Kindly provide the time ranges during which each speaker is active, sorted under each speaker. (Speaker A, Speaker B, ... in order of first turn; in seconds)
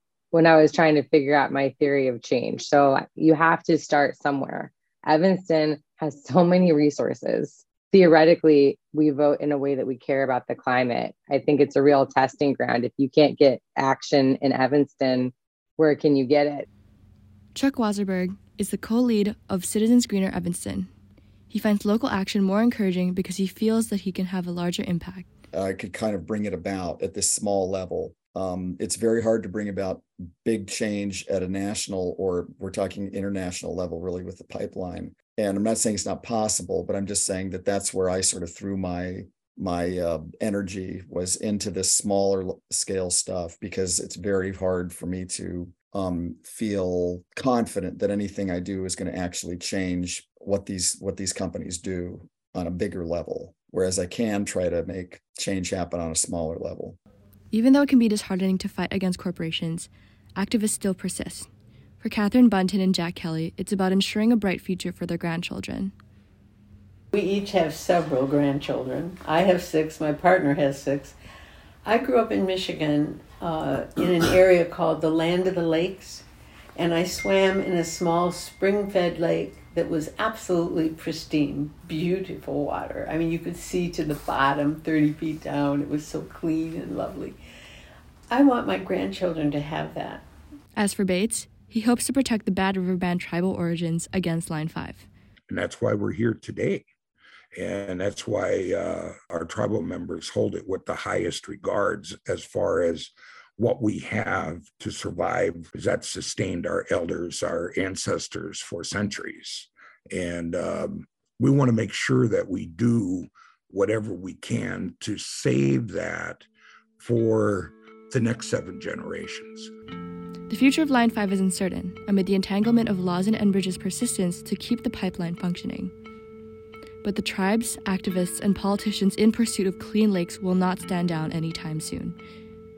Speaker A: 0.3-16.7
Speaker B: 17.6-20.9, 21.5-25.3, 57.5-61.5, 62.0-65.9, 90.8-95.1, 120.5-125.9, 127.0-132.2
Speaker C: 25.5-57.0
Speaker D: 67.1-71.2, 71.8-76.2, 76.8-87.4, 88.3-90.2
Speaker E: 95.5-96.8, 97.5-116.5, 117.0-119.7